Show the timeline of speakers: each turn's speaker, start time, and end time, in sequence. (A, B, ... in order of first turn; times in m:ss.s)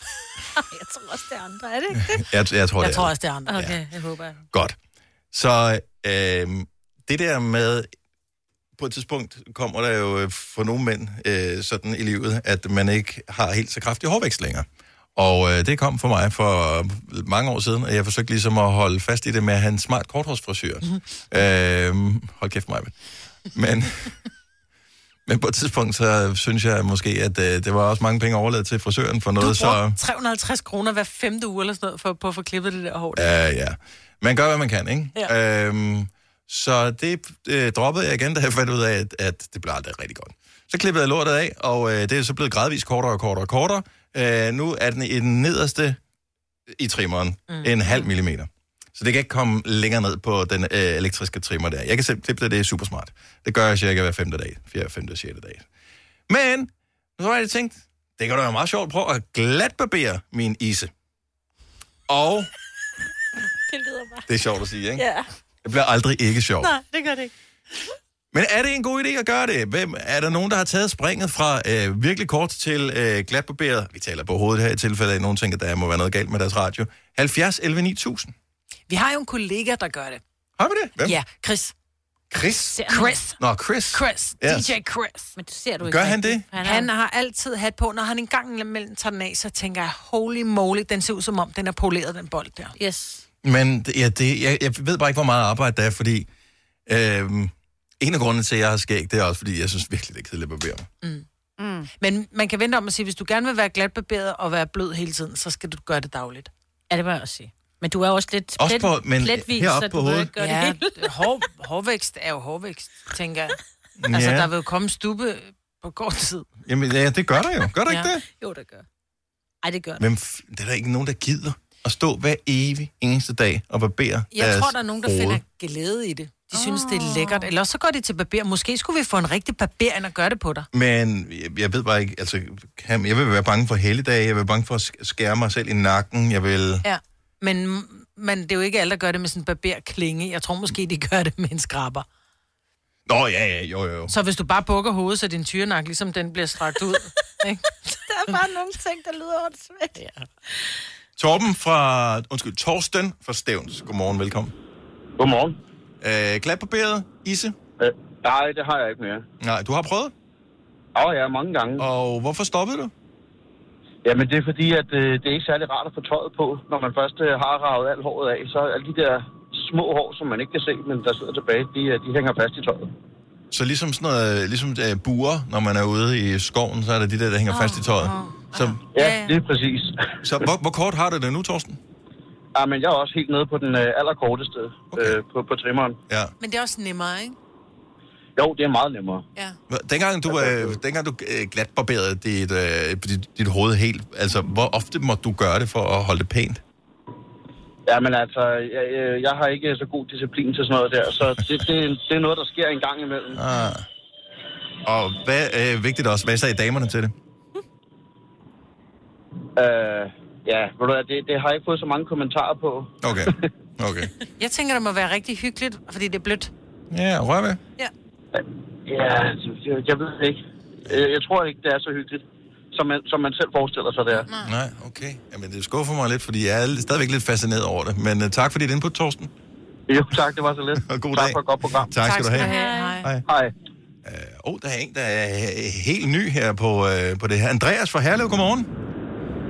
0:00.6-0:02.2 A
0:02.0-0:03.8 B
0:02.8-0:04.0 C
0:03.5-0:04.4 A
0:05.3-0:07.9 B
0:08.8-0:22.9 B
0:23.5-0:24.1 B
0:25.3-0:30.0 B
0:29.4-0:33.4 C
0:33.1-0:46.0 B
0:46.7-0:55.7 B
0:47.5-0:48.0 C
0:56.3-1:00.9 B
1:02.1-1:02.5 B
1:03.7-1:04.3 A
1:04.3-1:05.0 B
1:05.0-1:05.3 A
1:05.6-1:06.7 B
1:06.7-1:07.3 A
1:08.3-1:18.3 B
1:18.9-1:20.2 C
1:20.6-1:21.1 B
1:21.0-1:21.7 C
1:22.3-1:22.8 B
1:22.7-1:23.2 A
1:22.8-1:23.4 C
1:23.4-1:24.7 B
1:23.9-1:25.4 C
1:25.4-1:26.9 A
1:25.8-1:26.5 B
1:26.6-1:32.8 C
1:32.8-1:33.2 A
1:33.4-1:36.3 B
1:36.9-1:40.9 B
1:41.6-1:41.9 A
1:42.0-1:46.5 C
1:46.9-1:51.0 A
1:48.6-1:50.3 B
1:50.4-1:53.6 C
1:54.0-1:54.5 B
1:54.1-1:56.5 C
1:56.6-1:58.2 B
1:58.3-1:58.8 A
1:59.6-2:00.0 A
2:00.0-2:05.4 B
2:04.3-2:10.7 C
2:06.5-2:07.5 A
2:10.7-2:16.8 B
2:16.8-2:22.1 C
2:23.1-2:24.1 B
2:24.1-2:28.4 C
2:28.0-2:30.0 A
2:30.0-2:30.2 C
2:31.2-2:34.5 B
2:35.2-2:35.6 D
2:36.0-2:37.6 B
2:37.8-2:39.3 D
2:39.4-2:40.1 B
2:41.0-2:41.8 D
2:41.8-2:42.9 B
2:44.0-2:52.9 D
2:53.5-2:58.8 B
2:57.5-2:59.4 C
2:58.9-3:00.2 D
3:00.2-3:01.8 B
3:02.5-3:06.0 D
3:04.9-3:05.2 B
3:06.4-3:07.4 C
3:08.4-3:09.2 D
3:09.7-3:16.6 B
3:10.3-3:10.8 D
3:17.9-3:23.4 D
3:23.3-3:23.9 B
3:24.8-3:27.1 B
3:29.6-3:33.5 D
3:33.0-3:34.1 B
3:34.4-3:36.5 C
3:36.9-3:37.6 B
3:38.4-3:44.3 D
3:44.2-3:44.5 C
3:44.4-3:49.3 B
3:49.9-3:51.9 D
3:50.8-3:53.2 B
3:52.0-3:53.1 C
3:52.4-3:53.0 A
3:53.2-3:53.5 D
3:54.0-3:58.7 B